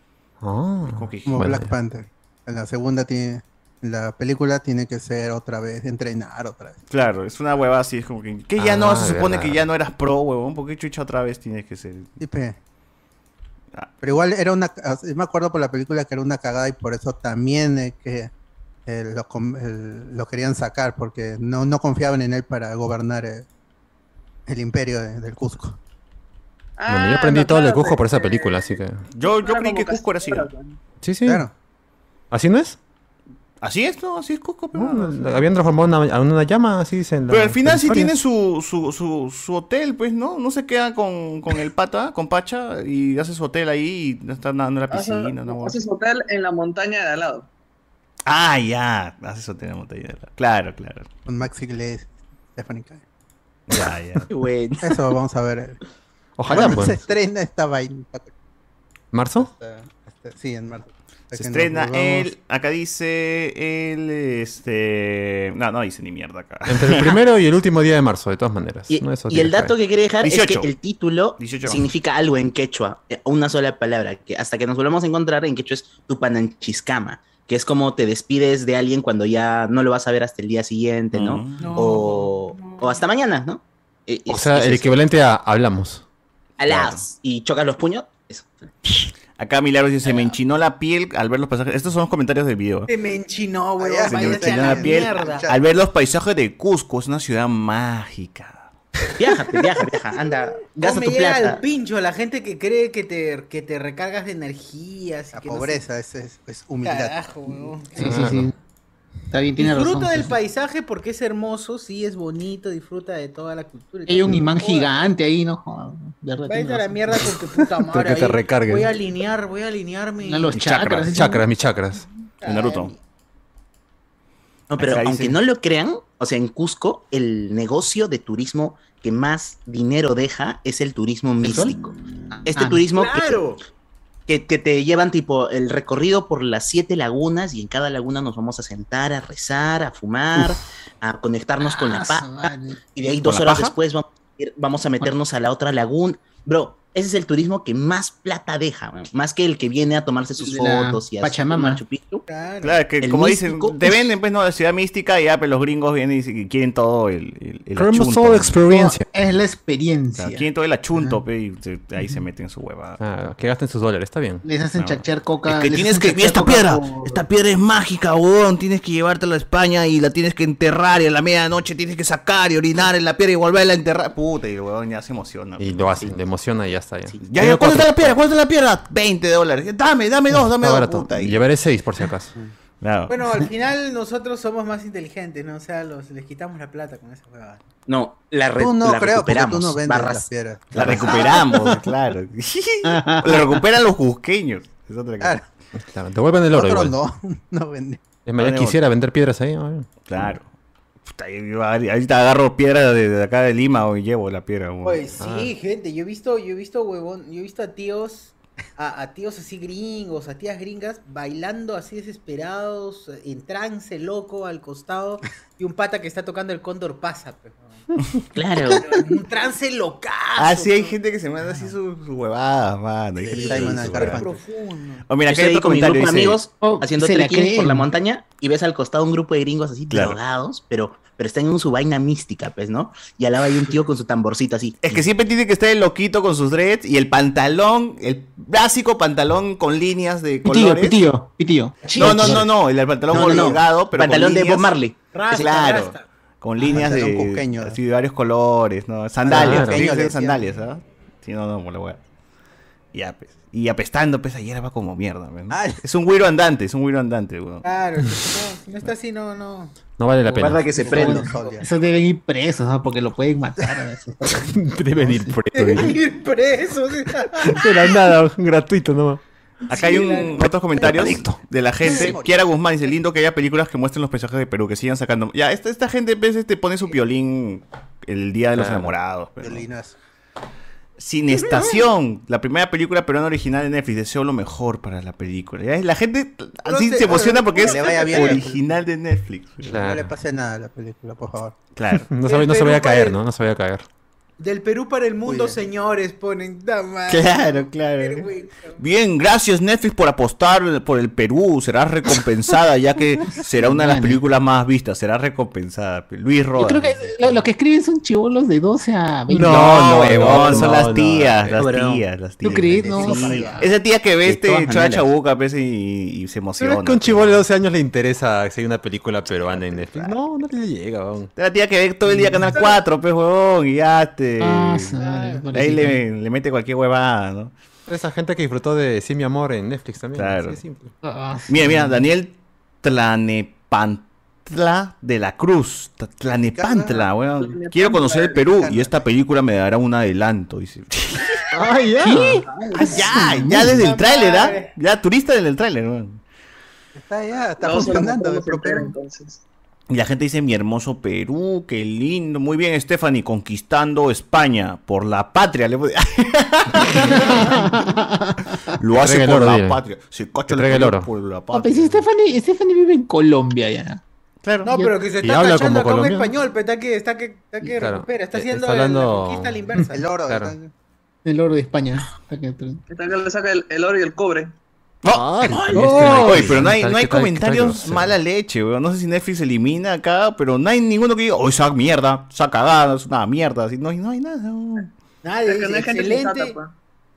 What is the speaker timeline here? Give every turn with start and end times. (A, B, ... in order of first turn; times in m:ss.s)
0:00.4-0:01.7 A
0:00.8-0:01.5 B
0:01.2-0:06.8 C
0:06.9-0:12.1 B
0:08.6-0:09.6 A
0:12.2-0:12.6 C
0:14.0-0:18.3 C
0:18.8-0:23.4 C
0:24.5-0:25.8 C
0:26.8-0:30.8 D
0:26.9-0:29.0 A
0:29.1-0:30.5 B
0:31.0-0:31.4 A
0:31.2-0:31.5 C
0:32.3-0:32.8 A
0:33.6-0:35.5 B
0:34.7-0:38.1 A
0:37.3-0:45.8 B
0:44.9-0:47.5 D
0:48.2-0:51.1 B
0:51.2-0:53.0 C
0:53.7-0:54.3 B
0:54.3-0:55.0 E
0:54.8-0:55.8 C
0:56.4-0:57.0 A
0:56.5-0:58.3 C
0:59.1-0:59.5 A
0:59.4-1:02.3 C
1:01.3-1:07.2 B
1:06.7-1:09.7 A
1:08.9-1:24.9 E
1:10.2-1:10.7 B
1:11.4-1:11.8 B
1:21.1-1:21.8 B
1:21.6-1:23.0 F
1:24.3-1:26.0 A
1:26.6-1:28.5 E
1:26.6-1:27.0 B
1:29.3-1:32.9 B
1:30.0-1:30.4 F
1:32.9-1:35.5 F
1:33.8-1:35.6 C
1:34.0-1:38.7 B
1:39.2-1:41.6 E
1:40.7-1:45.8 F
1:45.3-1:47.7 C
1:46.8-1:48.3 F
1:48.0-1:48.5 G
1:48.0-1:48.5 A
1:49.3-1:50.4 G
1:49.6-1:55.0 F
1:54.1-1:57.3 G
1:56.4-2:00.6 F
1:57.7-1:58.9 A
2:00.2-2:01.4 G
2:00.5-2:01.2 B
2:01.1-2:02.0 A
2:02.4-2:03.0 F
2:02.4-2:02.9 B
2:04.7-2:11.9 E
2:04.8-2:05.4 B
2:11.4-2:12.8 G
2:12.5-2:13.4 E
2:12.9-2:13.6 F
2:14.3-2:32.2 E
2:21.6-2:22.8 G
2:23.2-2:23.7 B
2:30.4-2:31.8 G
2:32.3-2:32.8 F
2:32.6-2:38.6 B
2:33.0-2:34.1 E
2:37.8-2:39.0 A
2:38.6-2:41.2 G
2:40.2-2:43.0 B
2:43.0-2:44.4 A
2:44.4-2:47.2 G
2:44.8-2:55.9 B
2:55.6-2:58.2 A
2:57.2-3:01.4 B
3:00.3-3:02.3 A
3:02.8-3:03.1 B
3:03.1-3:07.6 F
3:07.9-3:11.4 E
3:08.6-3:11.2 C
3:10.7-3:15.4 B
3:12.9-3:13.6 G
3:15.8-3:17.0 A
3:16.5-3:18.0 C
3:18.2-3:19.9 A
3:18.4-3:18.8 B
3:20.0-3:20.5 B
3:21.0-3:25.0 B
3:24.8-3:37.9 F
3:25.2-3:25.5 A
3:38.3-3:39.0 E
3:38.7-3:41.8 F
3:40.4-3:44.2 B
3:43.2-3:44.4 C
3:43.2-3:45.1 F
3:45.1-3:46.4 B
3:45.3-3:55.1 E
3:46.5-3:47.9 G
3:49.9-3:50.2 B
3:54.8-4:01.0 B
4:00.4-4:02.6 G
4:01.9-4:04.7 B
4:03.1-4:05.9 E
4:03.1-4:03.6 C
4:05.1-4:06.0 F
4:05.5-4:12.0 B
4:06.6-4:07.8 C
4:09.2-4:10.5 C
4:09.3-4:09.9 A
4:12.9-4:17.6 B
4:15.5-4:15.8 C
4:17.6-4:19.8 F
4:20.0-4:20.7 A
4:20.4-4:21.0 B
4:20.7-4:24.6 G
4:20.8-4:21.5 F
4:20.8-4:21.7 C
4:24.4-4:26.0 A
4:25.5-4:28.1 F
4:27.4-4:29.2 A
4:29.7-4:39.6 B
4:29.7-4:30.8 F
4:30.8-4:31.4 A
4:31.8-4:32.5 C
4:38.6-4:38.9 A
4:39.4-4:40.0 C
4:41.0-4:49.8 B
4:46.6-4:48.5 F
4:47.2-4:48.8 C
4:49.6-4:50.1 A
4:49.7-4:51.6 C
4:51.8-4:52.1 B
4:52.1-4:53.8 A
4:52.2-4:53.2 F
4:54.4-4:58.8 F
4:55.2-4:55.6 C
4:57.1-5:07.4 B
5:03.4-5:04.2 G
5:06.5-5:10.7 G
5:09.3-5:11.7 A
5:09.4-5:17.4 B
5:11.6-5:12.1 E
5:12.4-5:13.7 G
5:13.1-5:13.6 C
5:14.2-5:15.1 E
5:16.6-5:21.3 A
5:19.8-5:20.1 B
5:21.4-5:24.9 B
5:22.1-5:22.6 G
5:24.4-5:26.0 G
5:24.9-5:25.5 F
5:25.5-5:27.5 B
5:27.9-5:30.9 A
5:30.2-5:30.6 B
5:31.0-5:32.0 G
5:31.5-5:41.4 B
5:36.3-5:37.1 C
5:37.4-5:38.5 D
5:38.4-5:39.0 C
5:41.6-5:42.4 A
5:41.9-5:43.8 G
5:42.5-5:43.0 D
5:42.8-5:44.8 F
5:42.8-5:46.2 B
5:47.0-5:48.9 C
5:47.6-5:49.4 D
5:49.9-5:57.7 B
5:57.0-5:58.6 G
5:58.8-6:02.0 B
5:58.9-5:59.8 A
6:00.5-6:01.1 A
6:01.5-6:04.0 G
6:04.4-6:04.7 B
6:04.6-6:10.0 F
6:04.7-6:05.0 G
6:05.2-6:06.3 A
6:07.8-6:10.6 A
6:09.9-6:10.7 C
6:11.2-6:12.8 G
6:12.9-6:14.5 D
6:15.0-6:24.9 B
6:15.1-6:18.1 A
6:15.6-6:16.0 E
6:15.6-6:16.7 G
6:25.2-6:26.6 F
6:25.4-6:26.7 D